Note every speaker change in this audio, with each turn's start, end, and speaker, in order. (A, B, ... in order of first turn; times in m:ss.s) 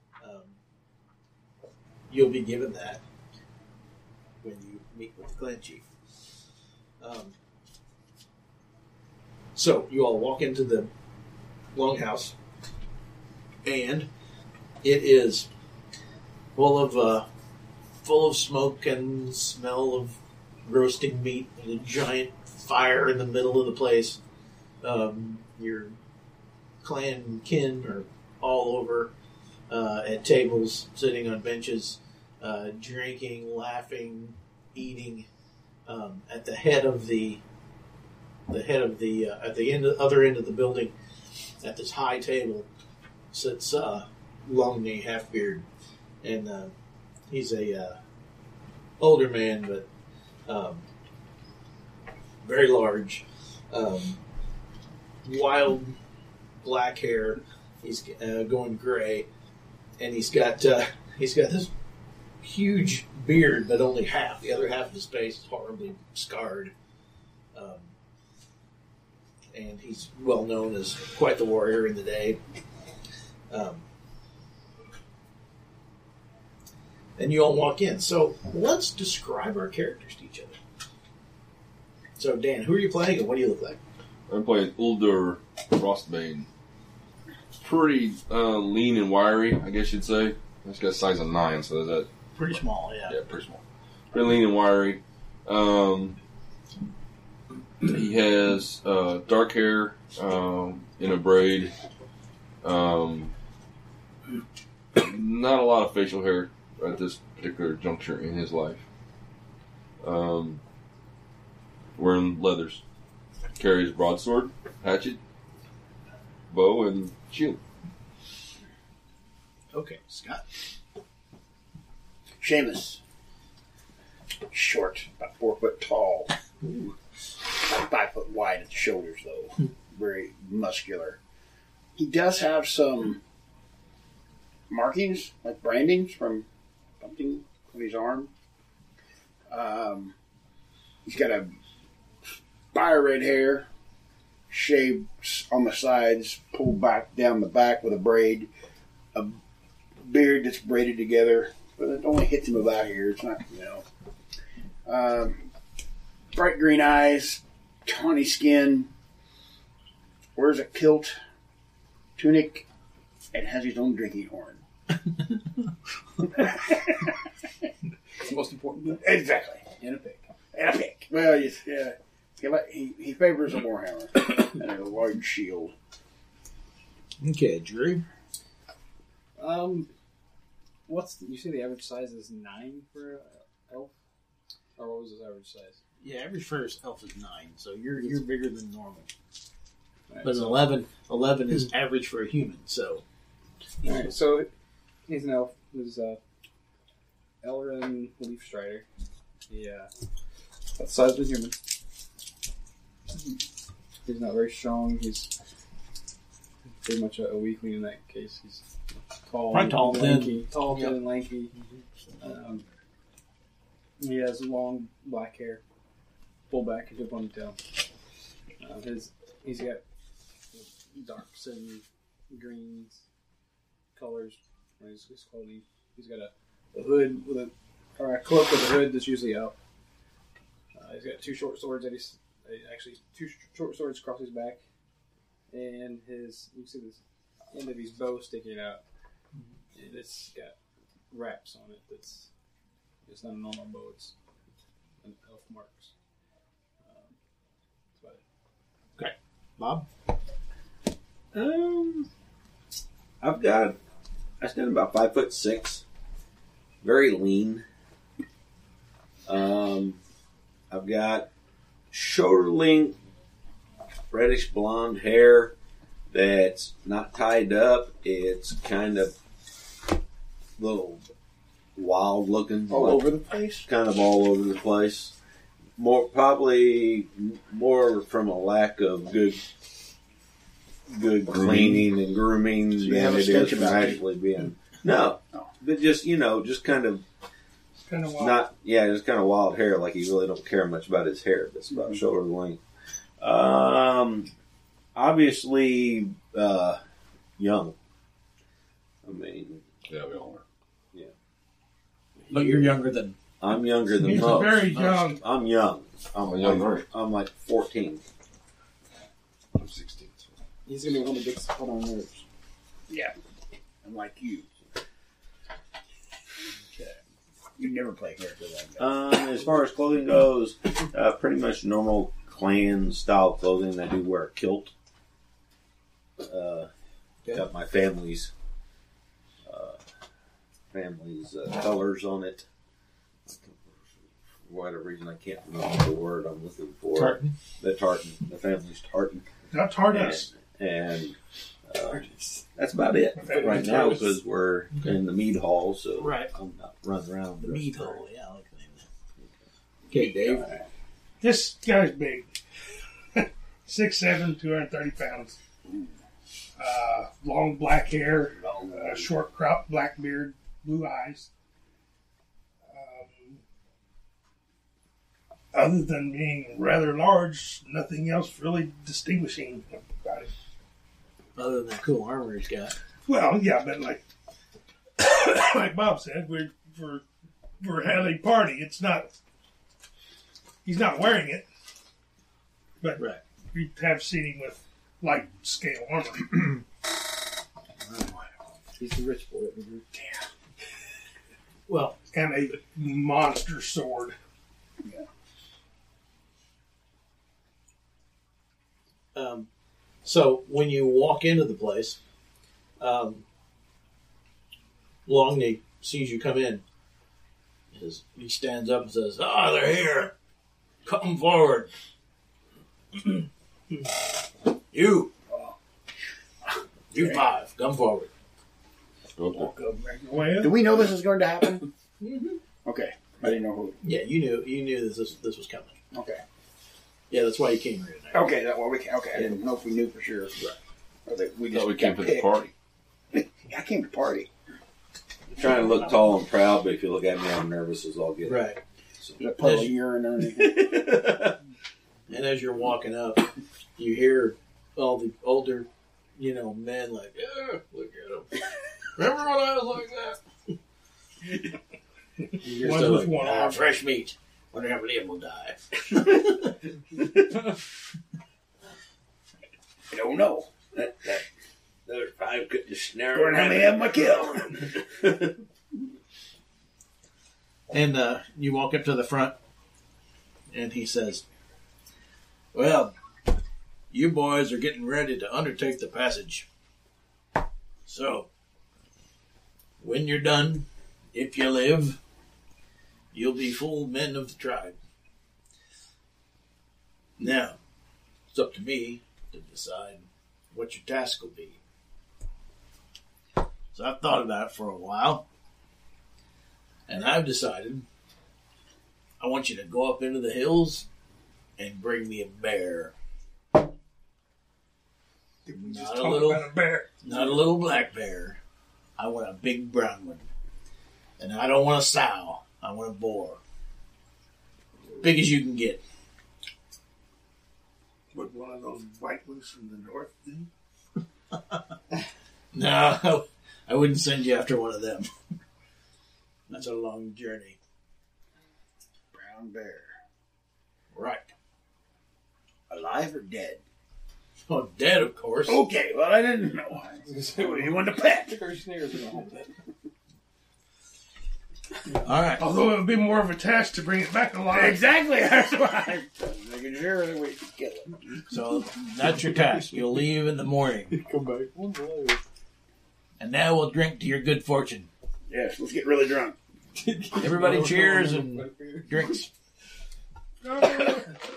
0:00.2-0:00.6 A
0:02.1-0:03.0 A
0:04.4-0:05.8 A
0:07.0-0:07.4 A
0:09.6-0:10.9 A
0:11.7-0:12.4 A
0:13.6-0:14.1 A
0:14.8-0:15.5 A
0:16.6-0:17.3 A
0:18.0-0:24.2 A
0:24.8-0:26.0 A
0:26.8-0:29.1 A
0:29.7-0:35.3 A
0:35.9-0:37.4 A
0:38.5-0:40.9 A
0:41.6-0:42.7 A
0:43.3-0:45.7 A
0:46.2-0:46.7 A
0:47.3-0:48.0 A
0:49.0-0:49.9 A
0:50.5-0:50.9 A
0:52.4-0:54.2 A
0:55.2-0:56.0 A
0:56.6-0:59.3 A
1:00.0-1:01.7 A
1:02.4-1:06.7 A
1:07.5-1:07.9 A
1:09.5-1:12.4 A
1:13.5-1:13.8 A
1:17.2-1:20.6 A
1:22.2-1:23.8 A
1:24.3-1:26.5 B
1:27.5-1:32.1 B
1:32.4-1:33.2 A
1:33.1-1:36.2 B
1:37.8-1:41.7 B
1:42.6-1:43.3 B
1:45.0-1:48.8 B
1:50.0-1:50.6 B
1:52.0-1:52.8 B
1:53.6-1:55.2 B
1:56.5-1:57.6 B
1:59.7-2:00.4 A
2:02.4-2:03.0 C
2:04.5-2:06.3 C
2:06.6-2:06.9 A
2:07.5-2:11.2 C
2:12.0-2:13.2 C
2:14.7-2:16.5 C
2:17.0-2:18.3 C
2:19.5-2:20.2 C
2:21.0-2:21.5 C
2:22.7-2:23.7 C
2:24.5-2:28.5 C
2:29.1-2:29.4 C
2:30.0-2:33.8 C
2:34.8-2:35.4 C
2:36.3-2:38.9 C
2:40.4-2:41.2 C
2:42.2-2:42.7 C
2:43.3-2:44.6 C
2:46.3-2:47.1 C
2:48.2-2:49.0 D
2:48.8-2:49.7 C
2:49.8-2:50.3 D
2:50.5-2:55.7 C
2:57.2-2:58.0 A
2:59.4-2:59.9 D
3:00.9-3:03.9 D
3:04.8-3:05.8 D
3:06.0-3:09.1 A
3:10.1-3:10.7 D
3:10.2-3:13.0 A
3:13.8-3:14.5 D
3:15.1-3:16.2 D
3:17.4-3:18.9 D
3:19.5-3:19.9 D
3:20.8-3:21.6 D
3:24.0-3:25.3 D
3:26.8-3:28.7 D
3:29.2-3:31.5 D
3:29.5-3:31.0 A
3:32.2-3:32.6 D
3:34.0-3:35.6 D
3:36.5-3:37.6 D
3:38.6-3:39.8 D
3:40.5-3:43.0 D
3:44.0-3:49.6 D
3:50.8-3:54.6 D
3:55.5-3:57.0 D
3:57.5-3:58.8 D
3:59.8-4:00.6 D
4:01.1-4:02.3 D
4:03.0-4:04.2 D
4:05.0-4:05.9 D
4:06.8-4:07.2 D
4:08.0-4:08.2 D
4:09.0-4:09.9 A
4:11.3-4:12.1 E
4:13.2-4:13.8 E
4:14.4-4:15.8 E
4:16.8-4:17.7 E
4:19.3-4:20.0 E
4:20.7-4:21.3 E
4:21.9-4:23.0 E
4:24.1-4:25.5 E
4:26.1-4:29.2 E
4:30.6-4:31.1 E
4:31.8-4:33.1 E
4:32.7-4:33.7 C
4:33.6-4:35.1 E
4:35.8-4:39.4 E
4:40.9-4:47.0 E
4:41.3-4:41.9 B
4:42.8-4:44.0 C
4:47.8-4:48.5 F
4:48.1-4:52.6 E
4:53.2-4:54.3 E
4:55.0-4:56.8 E
4:57.4-4:57.8 E
4:59.0-4:59.6 E
4:59.9-5:00.4 B
5:02.3-5:03.2 A
5:03.4-5:08.0 E
5:04.0-5:05.2 F
5:06.2-5:06.9 B
5:09.6-5:10.3 B
5:10.7-5:12.2 D
5:12.9-5:13.2 C
5:13.8-5:14.5 C
5:17.6-5:19.0 C
5:18.8-5:24.7 E
5:26.2-5:26.7 E
5:27.3-5:28.3 E
5:29.4-5:29.8 E
5:30.7-5:32.5 E
5:33.3-5:33.8 E
5:34.4-5:39.3 E
5:36.9-5:37.4 A
5:39.5-5:40.3 F
5:39.9-5:48.0 E
5:43.2-5:44.0 F
5:46.0-5:46.3 A
5:47.4-5:48.9 A
5:49.9-5:50.5 A
5:51.2-5:52.3 F
5:53.2-5:55.4 F
5:56.6-6:01.3 F
5:58.5-5:59.0 E
6:02.7-6:03.4 F
6:05.5-6:10.3 F
6:11.4-6:12.8 A
6:13.1-6:14.0 F
6:15.0-6:17.0 F
6:17.6-6:19.1 F
6:20.6-6:21.5 F
6:22.8-6:26.6 F
6:28.8-6:29.9 D
6:29.9-6:30.2 C
6:31.7-6:32.0 A
6:32.1-6:34.2 F
6:34.8-6:35.1 C
6:39.2-6:39.5 A
6:40.0-6:42.0 A
6:42.8-6:43.2 A
6:45.1-6:46.6 A
6:47.7-6:50.1 A
6:50.8-6:51.7 A
6:54.7-6:55.1 A
6:55.3-6:55.6 C
6:56.9-6:58.1 A
6:56.9-6:57.2 C
6:59.2-6:59.5 B
6:59.7-7:00.7 F
7:00.4-7:01.7 C
7:02.0-7:02.4 A
7:02.6-7:03.8 C
7:03.8-7:05.8 A
7:05.9-7:06.2 C
7:07.1-7:08.3 A
7:08.1-7:10.3 C
7:09.1-7:09.4 A
7:11.1-7:12.3 C
7:11.5-7:12.5 B
7:13.1-7:14.3 C
7:15.3-7:19.2 E
7:18.2-7:18.6 A
7:19.2-7:21.0 C
7:19.4-7:19.8 A
7:20.3-7:21.4 E
7:22.1-7:28.4 A
7:29.0-7:30.2 A
7:32.4-7:36.5 A
7:32.4-7:33.7 F
7:39.9-7:40.5 C
7:40.7-7:41.2 E
7:41.9-7:45.4 E
7:43.1-7:44.6 C
7:47.7-7:49.4 A
7:50.5-7:51.2 A
7:52.5-7:52.9 A
7:53.9-7:56.5 A
7:57.9-7:58.3 A
7:59.8-8:02.0 A
8:03.1-8:04.8 A
8:07.2-8:07.6 A
8:08.3-8:11.6 A
8:13.7-8:15.2 A
8:16.9-8:17.9 A
8:19.2-8:20.9 A
8:21.6-8:23.0 A
8:25.4-8:27.2 F
8:25.6-8:28.4 A
8:29.0-8:30.3 A
8:31.2-8:33.4 A
8:35.0-8:35.8 A
8:38.1-8:40.5 F
8:42.5-8:45.1 A
8:46.5-8:47.6 A
8:49.1-8:50.0 C
8:50.9-8:51.3 A
8:52.7-8:53.6 C
8:54.5-8:55.7 A
8:55.5-8:58.4 C
8:57.1-8:59.5 D
9:01.9-9:02.5 A
9:02.4-9:04.8 F
9:04.5-9:08.2 C
9:08.3-9:11.0 A
9:10.9-9:12.2 D
9:13.2-9:14.9 A
9:15.3-9:16.4 C
9:16.8-9:19.2 D
9:17.2-9:19.3 A
9:20.4-9:21.2 F